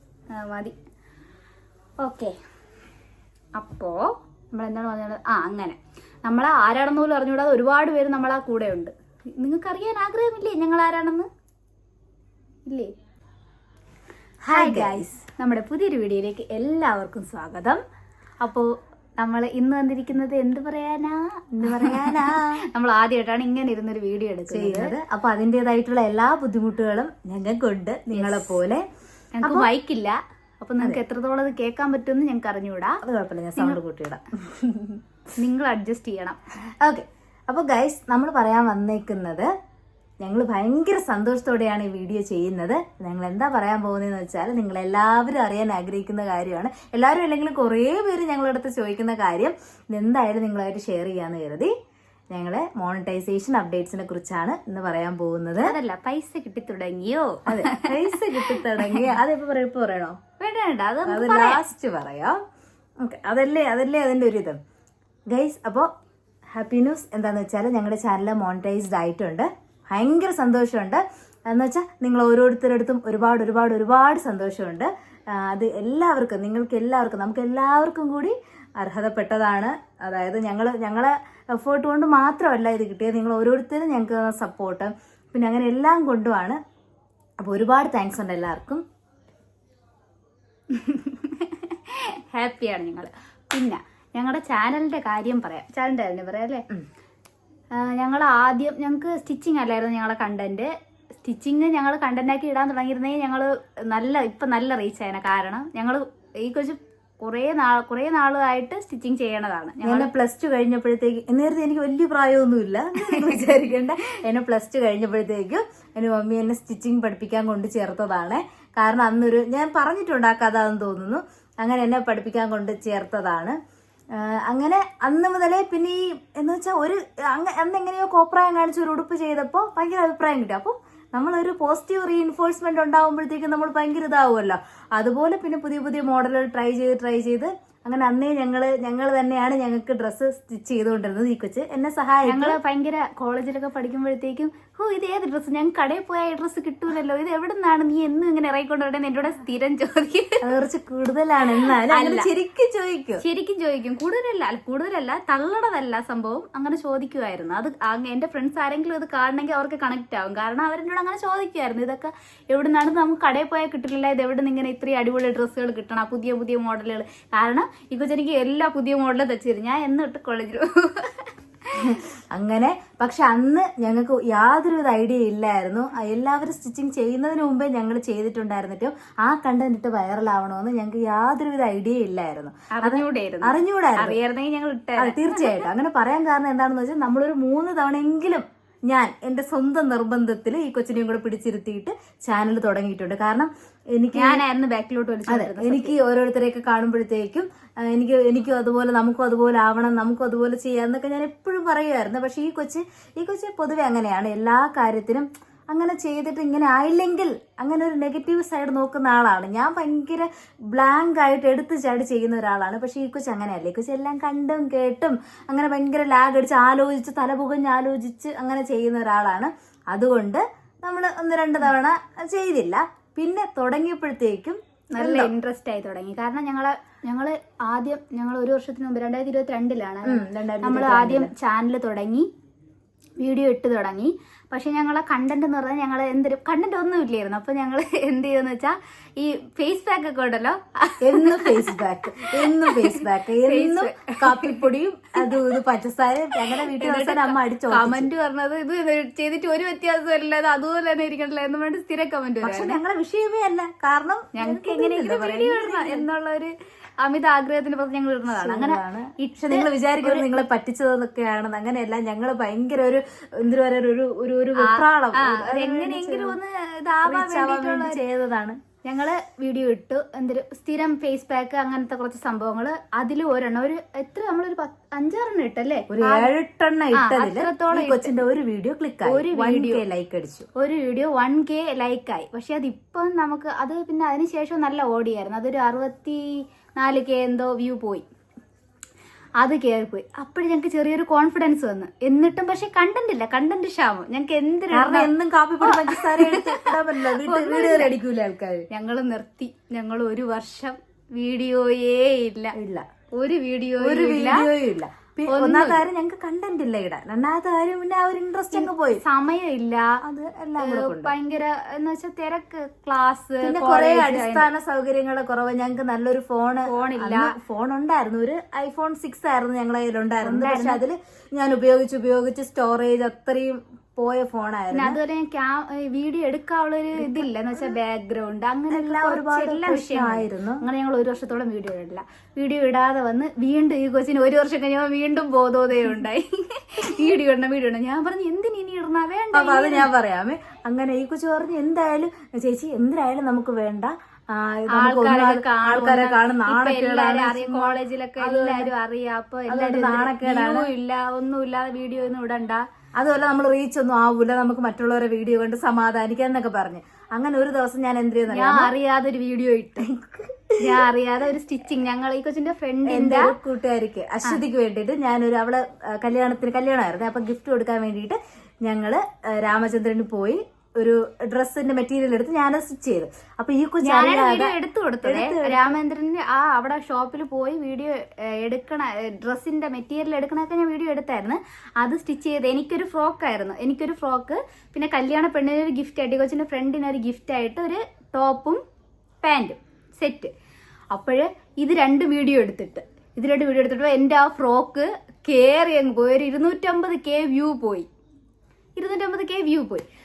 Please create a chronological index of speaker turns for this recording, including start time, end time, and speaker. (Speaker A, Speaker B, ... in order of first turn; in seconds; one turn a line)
Speaker A: 0.3-0.8
Speaker A: 2.0-2.4
Speaker A: 3.6-11.3
Speaker A: 12.7-12.9
Speaker A: 14.5-17.8
Speaker B: 14.5-15.1
Speaker A: 18.4-24.9
Speaker B: 21.6-22.6
Speaker B: 24.5-28.9
Speaker A: 28.1-28.6
Speaker A: 29.4-33.0
Speaker B: 29.4-29.7
Speaker B: 33.0-34.3
Speaker A: 34.3-36.4
Speaker B: 36.8-39.5
Speaker B: 40.2-51.7
Speaker B: 52.3-55.8
Speaker A: 55.6-59.1
Speaker B: 57.5-60.2
Speaker A: 60.4-61.6
Speaker B: 61.1-62.4
Speaker B: 63.0-64.6
Speaker B: 65.3-65.9
Speaker B: 66.5-86.6
Speaker B: 87.4-88.8
Speaker A: 90.7-96.7
Speaker A: 97.7-110.1
Speaker B: 109.8-123.6
Speaker A: 113.0-113.6
Speaker B: 124.1-142.6
Speaker A: 142.3-150.4
Speaker B: 150.4-153.2
Speaker A: 151.4-152.3
Speaker A: 153.2-172.0
Speaker B: 171.8-184.2
Speaker A: 182.7-185.7
Speaker B: 185.0-194.4
Speaker A: 194.2-196.0
Speaker B: 195.3-225.3
Speaker A: 224.9-232.3
Speaker B: 230.1-231.3
Speaker A: 233.2-244.7
Speaker B: 241.0-248.1
Speaker A: 245.2-245.5
Speaker A: 246.4-252.8
Speaker B: 252.4-256.1
Speaker A: 254.3-260.3
Speaker B: 258.3-266.4
Speaker A: 264.6-268.0
Speaker B: 267.1-268.6
Speaker A: 268.8-276.3
Speaker B: 275.9-280.5
Speaker A: 276.9-278.1
Speaker A: 279.1-279.8
Speaker A: 280.6-288.1
Speaker A: 289.4-295.1
Speaker B: 294.7-298.7
Speaker A: 295.6-297.9
Speaker A: 298.7-302.6
Speaker B: 302.5-302.9
Speaker A: 303.1-304.5
Speaker B: 303.8-309.0
Speaker A: 305.3-305.9
Speaker A: 308.5-310.0
Speaker B: 310.0-311.1
Speaker A: 310.6-314.5
Speaker B: 313.4-325.0
Speaker A: 316.7-317.4
Speaker A: 320.2-320.8
Speaker A: 324.7-339.9
Speaker B: 328.7-330.6
Speaker B: 339.3-348.7
Speaker A: 344.7-352.6
Speaker B: 349.5-350.7
Speaker B: 353.0-358.7
Speaker A: 358.3-359.9
Speaker B: 359.8-360.9
Speaker A: 360.6-363.4
Speaker B: 362.9-375.8
Speaker A: 373.8-388.6
Speaker A: 389.2-390.3
Speaker A: 390.9-397.9
Speaker A: 398.8-399.9